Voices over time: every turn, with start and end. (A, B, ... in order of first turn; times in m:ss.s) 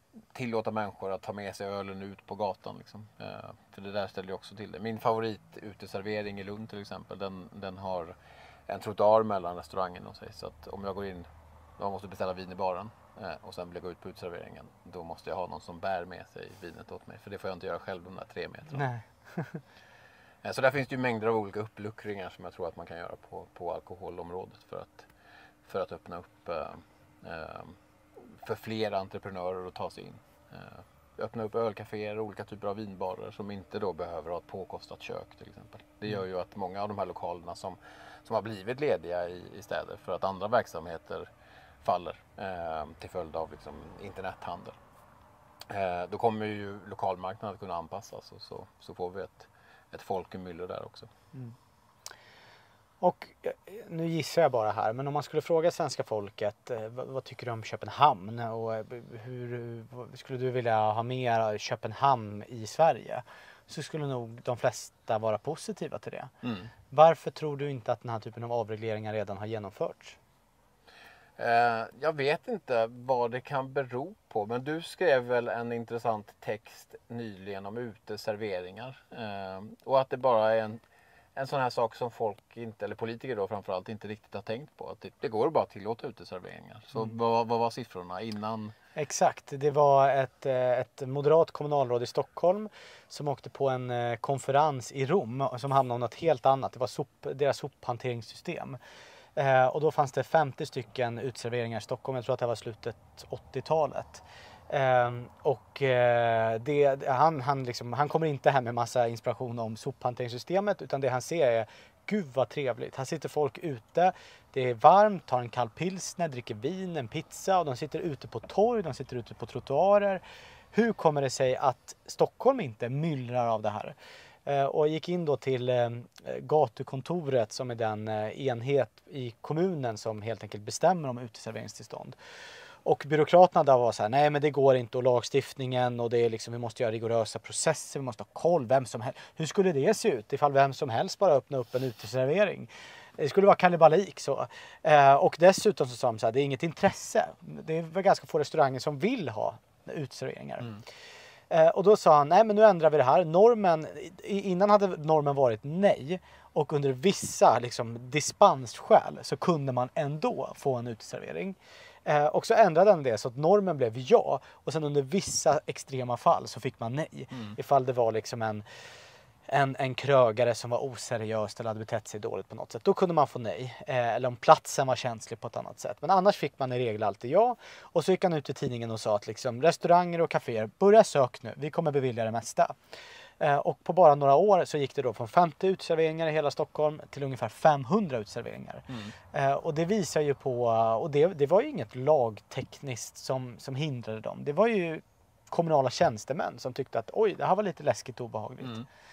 0:00.3-0:08.1 A
0:08.7-0:11.3 A
0:11.8-0:18.9 A
0:18.7-0:19.6 B
0:20.4-0:25.1 A
0:25.6-0:41.3 A
0:41.8-0:44.8 A
0:45.7-0:51.1 A
0:53.0-1:06.3 B
1:06.4-1:06.7 A
1:06.9-1:10.2 B
1:11.4-1:20.8 A
1:21.4-1:28.7 A
1:29.0-1:38.8 B
1:39.4-2:00.2 B
2:00.7-2:03.9 B
2:04.4-2:12.1 B
2:12.8-2:30.7 B
2:31.5-2:48.6 B
2:49.5-3:02.8 B
3:03.4-3:18.8 B